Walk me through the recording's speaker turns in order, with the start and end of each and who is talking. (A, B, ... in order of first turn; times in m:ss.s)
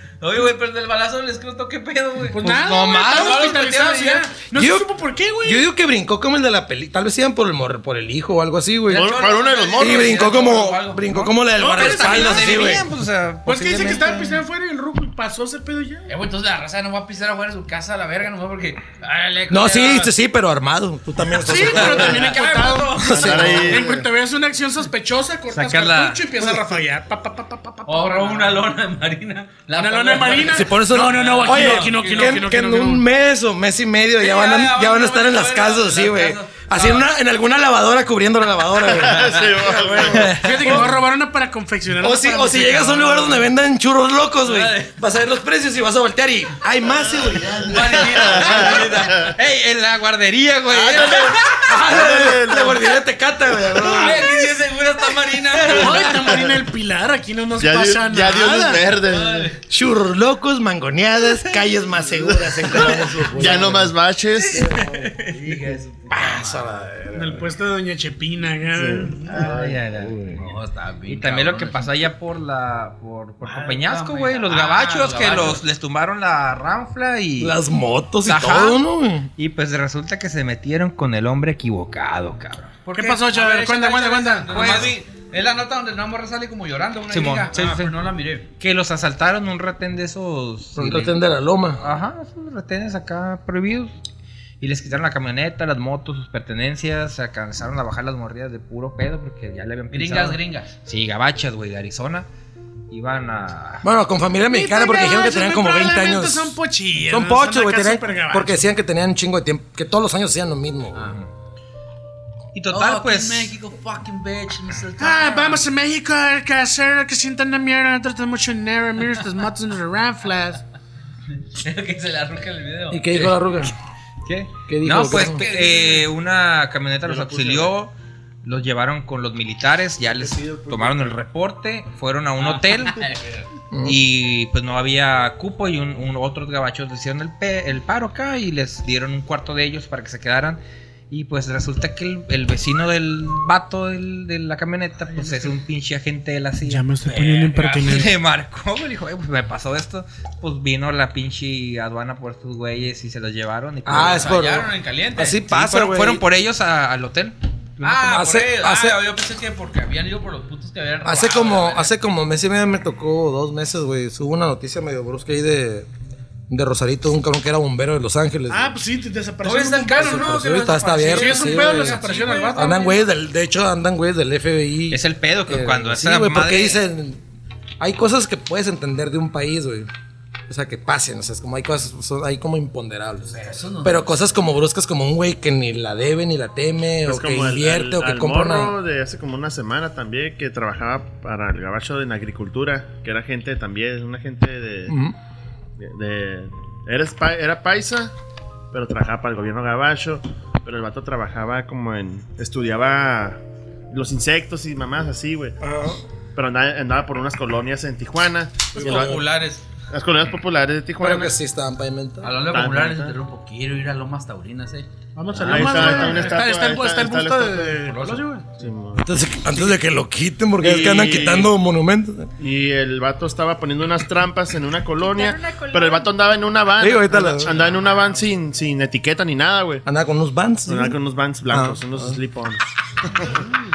0:00.2-0:02.4 A
0:02.3-0:05.6 B
0:02.4-0:04.3 C
0:03.1-0:04.2 A
0:04.5-0:04.9 D
0:05.4-0:09.2 D
0:08.9-0:11.1 A
0:08.9-0:10.2 E
0:09.8-0:12.9 D
0:11.1-0:14.4 C
0:11.6-0:12.8 B
0:13.5-0:16.1 B
0:16.1-0:20.1 A
0:19.5-0:22.4 D
0:21.4-0:28.6 B
0:21.5-0:23.7 A
0:23.0-0:23.8 D
0:23.1-0:24.1 E
0:25.5-0:26.2 C
0:27.8-0:32.5 A
0:29.7-0:33.0 B
0:30.4-0:41.0 D
0:34.2-0:37.1 A
0:38.8-0:40.4 E
0:39.2-0:39.5 A
0:40.2-0:43.4 B
0:40.2-0:40.6 C
0:42.0-0:48.6 D
0:44.4-0:45.0 A
0:47.0-0:49.3 E
0:47.6-0:49.3 A
0:49.2-0:51.7 C
0:50.7-0:53.0 E
0:51.6-0:54.3 D
0:53.8-0:56.2 A
0:55.7-0:56.1 C
0:55.7-0:59.0 B
0:56.2-0:56.7 E
0:57.6-0:59.5 E
0:59.0-0:59.6 A
0:59.7-1:03.9 D
1:02.2-1:04.7 E
1:03.4-1:03.8 A
1:04.5-1:06.7 A
1:04.5-1:05.6 D
1:06.1-1:07.5 D
1:07.2-1:09.4 B
1:08.7-1:09.8 E
1:09.3-1:10.4 C
1:10.1-1:10.3 D
1:10.3-1:12.0 A
1:11.1-1:17.6 C
1:13.4-1:15.6 A
1:17.4-1:19.3 D
1:18.3-1:18.8 C
1:19.4-1:22.8 C
1:22.8-1:28.5 A
1:22.9-1:24.8 B
1:24.5-1:25.0 C
1:27.1-1:27.9 C
1:28.6-1:31.2 C
1:30.8-1:31.8 D
1:31.8-1:33.9 C
1:34.6-1:42.3 C
1:39.9-1:40.7 A
1:42.9-1:43.9 C
1:43.8-1:51.1 D
1:44.5-1:48.6 B
1:52.5-1:53.5 C
1:52.7-1:55.6 A
1:55.0-2:00.6 B
2:01.4-2:03.4 A
2:02.9-2:03.8 D
2:04.2-2:07.9 C
2:04.7-2:05.4 D
2:05.1-2:06.1 A
2:07.0-2:07.7 E
2:08.4-2:13.1 C
2:10.2-2:11.2 E
2:12.4-2:13.5 A
2:13.7-2:14.0 D
2:13.8-2:34.4 C
2:25.2-2:25.4 A
2:26.6-2:28.2 B
2:27.1-2:28.1 A
2:33.9-2:36.2 D
2:33.9-2:35.4 A
2:35.4-2:37.4 C
2:37.8-2:41.9 A
2:37.8-2:39.0 D
2:41.0-2:45.9 D
2:46.5-2:48.7 D
2:48.5-2:50.2 B
2:49.4-2:52.9 A
2:49.9-2:52.0 D
2:51.1-2:53.0 B
2:52.5-2:57.2 D
2:54.9-2:56.8 C
2:57.8-2:59.9 D
3:00.5-3:08.8 D
3:03.3-3:04.1 A
3:07.0-3:15.0 E
3:14.9-3:15.2 D
3:15.8-3:18.1 E
3:18.7-3:23.4 E
3:23.9-3:25.6 E
3:25.6-3:26.0 D
3:26.4-3:29.2 E
3:28.7-3:29.6 A
3:28.8-3:29.2 D
3:29.9-3:31.4 E
3:31.0-3:32.4 D
3:32.2-3:34.9 A
3:32.5-3:33.2 E
3:35.2-3:38.5 B
3:35.4-3:38.0 E
3:35.4-3:36.2 A
3:37.9-3:38.2 A
3:38.6-3:39.1 E
3:39.0-3:42.3 D
3:40.6-3:41.6 E
3:42.4-3:49.8 E
3:46.8-3:47.5 D
3:47.4-3:48.2 A
3:49.8-3:51.0 D
3:50.7-3:53.3 E
3:51.5-3:52.2 D